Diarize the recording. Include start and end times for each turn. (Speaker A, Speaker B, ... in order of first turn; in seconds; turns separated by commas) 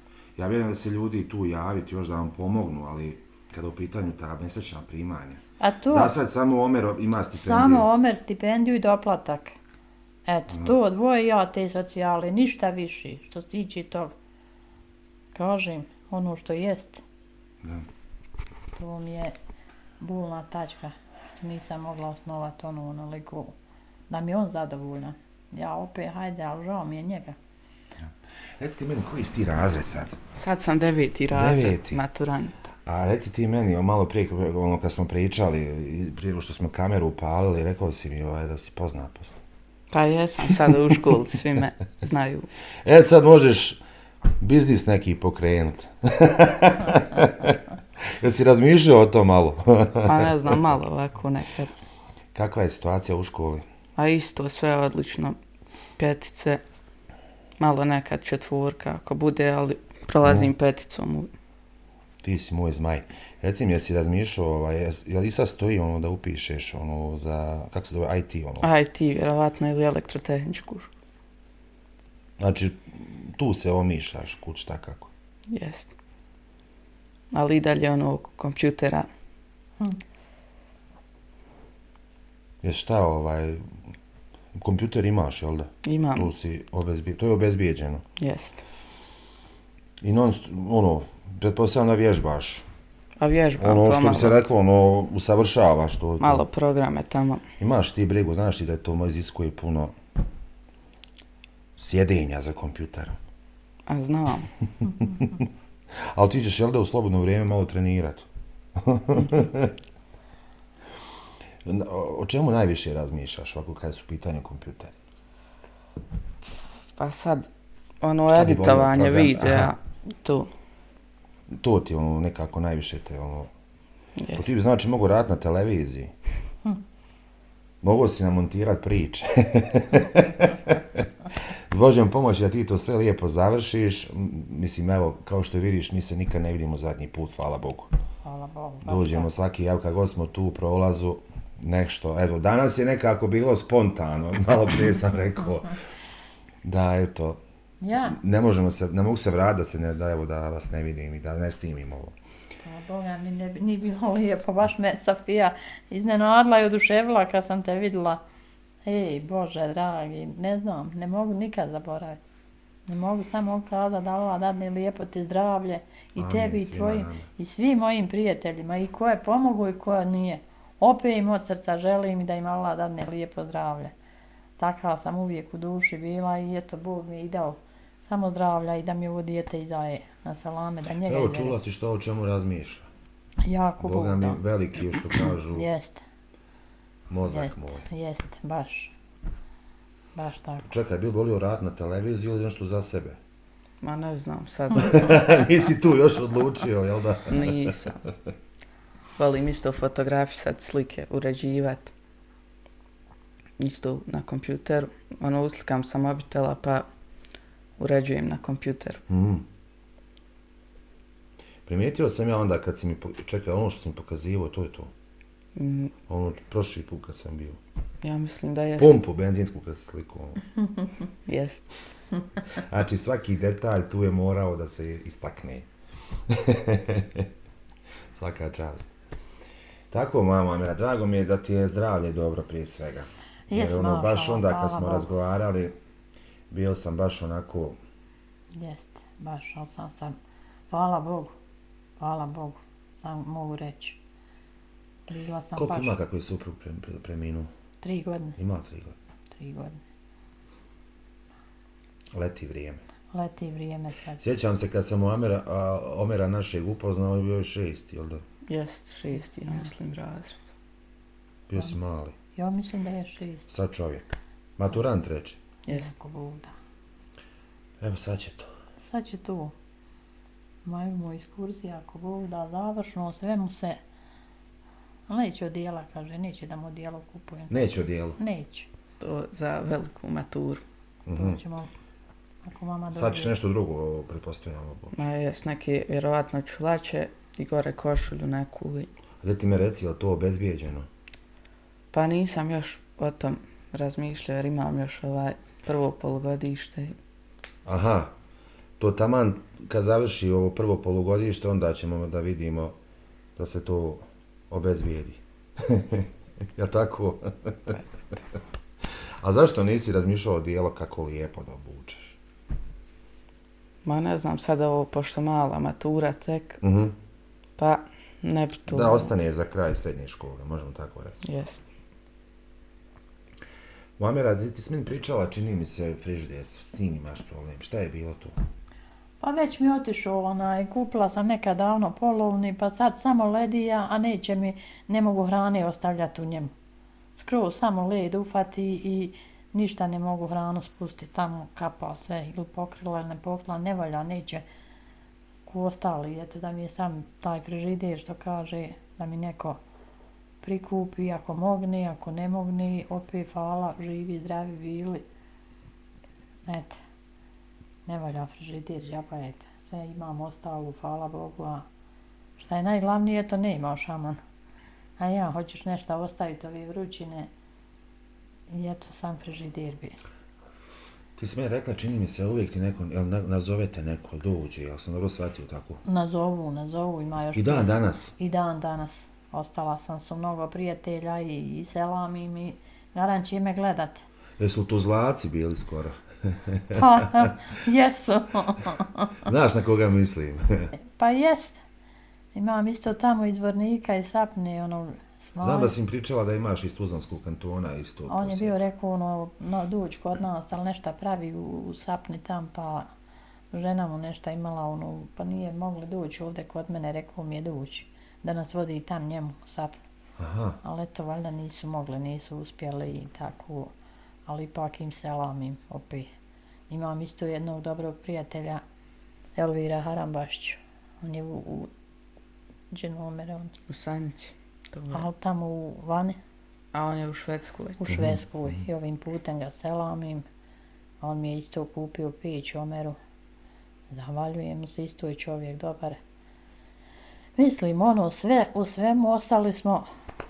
Speaker A: 0.3-7.9, Speaker B: 5.6-6.1, Speaker B: 7.3-9.5, Speaker B: 10.2-14.1, Speaker B: 15.3-17.0, Speaker B: 18.7-19.3, Speaker B: 20.0-23.6, Speaker B: 24.1-27.4, Speaker A: 28.0-30.2, Speaker C: 30.4-32.7, Speaker A: 31.3-32.0, Speaker A: 32.9-39.4, Speaker C: 39.9-42.5, Speaker A: 42.8-43.8, Speaker A: 44.4-47.6, Speaker A: 48.2-50.6, Speaker C: 50.0-51.7, Speaker A: 52.3-53.7, Speaker C: 54.0-55.4, Speaker C: 56.0-56.6, Speaker C: 57.6-61.3, Speaker A: 60.2-60.5, Speaker A: 62.2-68.7, Speaker C: 68.6-70.9, Speaker A: 72.4-75.1, Speaker C: 75.5-75.9, Speaker C: 77.3-79.1, Speaker A: 82.6-83.7, Speaker A: 84.5-88.0, Speaker C: 85.8-86.3, Speaker C: 88.2-88.6, Speaker A: 90.0-92.7, Speaker C: 93.2-94.4, Speaker A: 93.6-96.4, Speaker C: 96.2-97.5, Speaker A: 97.6-99.9, Speaker A: 101.8-103.2, Speaker C: 103.9-104.5, Speaker A: 105.0-109.7, Speaker A: 111.6-115.0, Speaker C: 117.0-117.5, Speaker C: 118.0-120.5, Speaker A: 118.3-119.7, Speaker A: 121.5-123.5, Speaker C: 124.2-124.5, Speaker A: 124.3-126.1, Speaker A: 127.8-131.1, Speaker A: 131.7-137.9, Speaker B: 138.2-139.3, Speaker A: 138.8-145.8, Speaker A: 146.6-147.4, Speaker B: 147.8-148.2, Speaker A: 148.1-152.1, Speaker B: 152.6-158.2, Speaker B: 158.8-162.2, Speaker B: 162.9-173.9, Speaker A: 166.2-167.3, Speaker B: 174.6-181.6, Speaker A: 181.1-182.9, Speaker B: 183.4-184.4, Speaker A: 183.8-185.7, Speaker B: 185.5-186.0, Speaker A: 187.1-187.8, Speaker B: 187.3-188.9, Speaker B: 190.1-190.7, Speaker A: 190.6-193.2, Speaker C: 193.8-195.2, Speaker A: 194.8-197.8, Speaker C: 197.3-198.0, Speaker C: 199.2-201.9, Speaker C: 203.6-206.9, Speaker C: 207.8-209.0, Speaker A: 209.1-209.4, Speaker A: 211.7-214.9, Speaker C: 215.5-215.9, Speaker A: 216.1-217.6, Speaker C: 218.0-219.0, Speaker A: 218.8-220.4, Speaker C: 221.2-221.8, Speaker A: 222.5-225.7, Speaker A: 226.3-227.3, Speaker A: 228.1-228.9, Speaker A: 229.9-235.7, Speaker B: 233.5-235.1, Speaker A: 236.5-237.8, Speaker B: 238.5-240.1, Speaker B: 240.7-241.3, Speaker B: 242.0-244.0, Speaker B: 245.1-245.9, Speaker A: 245.5-247.5, Speaker B: 247.8-248.4, Speaker A: 248.4-248.9, Speaker B: 249.3-249.8, Speaker A: 252.1-252.8, Speaker B: 253.1-254.2, Speaker A: 254.2-258.2, Speaker C: 258.5-260.4, Speaker B: 259.1-259.7, Speaker A: 261.5-262.1, Speaker B: 262.3-263.5, Speaker A: 263.5-265.4, Speaker B: 265.6-266.5, Speaker C: 265.7-265.9, Speaker A: 267.8-268.5, Speaker B: 268.8-269.5, Speaker B: 270.6-273.8, Speaker B: 275.1-277.5, Speaker A: 277.5-278.2, Speaker B: 278.2-278.7, Speaker C: 279.0-280.6, Speaker A: 281.1-281.4, Speaker B: 281.1-281.7, Speaker B: 282.4-283.3, Speaker A: 282.9-285.0, Speaker C: 284.9-288.9, Speaker A: 289.2-290.9, Speaker C: 291.9-296.9, Speaker A: 297.6-298.1, Speaker A: 298.8-302.8, Speaker A: 303.4-307.8, Speaker A: 309.2-312.2, Speaker C: 313.8-316.6, Speaker A: 316.6-316.9, Speaker C: 317.6-319.1, Speaker A: 318.7-321.2, Speaker C: 321.2-321.6, Speaker A: 324.0-328.3, Speaker B: 329.2-336.5, Speaker B: 337.2-344.4, Speaker B: 345.4-349.6, Speaker B: 350.4-355.0, Speaker B: 356.4-356.8, Speaker B: 357.9-361.6, Speaker B: 362.4-364.2, Speaker B: 365.0-367.3, Speaker B: 368.5-370.0, Speaker A: 371.1-375.8, Speaker B: 375.8-384.0, Speaker A: 377.3-378.1, Speaker A: 384.4-387.3, Speaker B: 386.7-389.1, Speaker A: 389.2-390.7, Speaker B: 390.9-391.6, Speaker B: 392.3-395.7, Speaker A: 395.4-398.5, Speaker B: 398.1-402.9, Speaker B: 403.5-409.8, Speaker A: 410.2-410.6, Speaker B: 410.6-413.7, Speaker B: 414.2-416.1, Speaker B: 416.7-418.6, Speaker B: 419.4-421.7, Speaker B: 422.7-423.5, Speaker C: 423.7-425.1, Speaker B: 424.9-426.2, Speaker C: 426.7-427.8, Speaker B: 427.8-430.2, Speaker A: 427.9-428.2, Speaker B: 431.0-432.9, Speaker B: 433.9-436.0, Speaker B: 437.4-439.9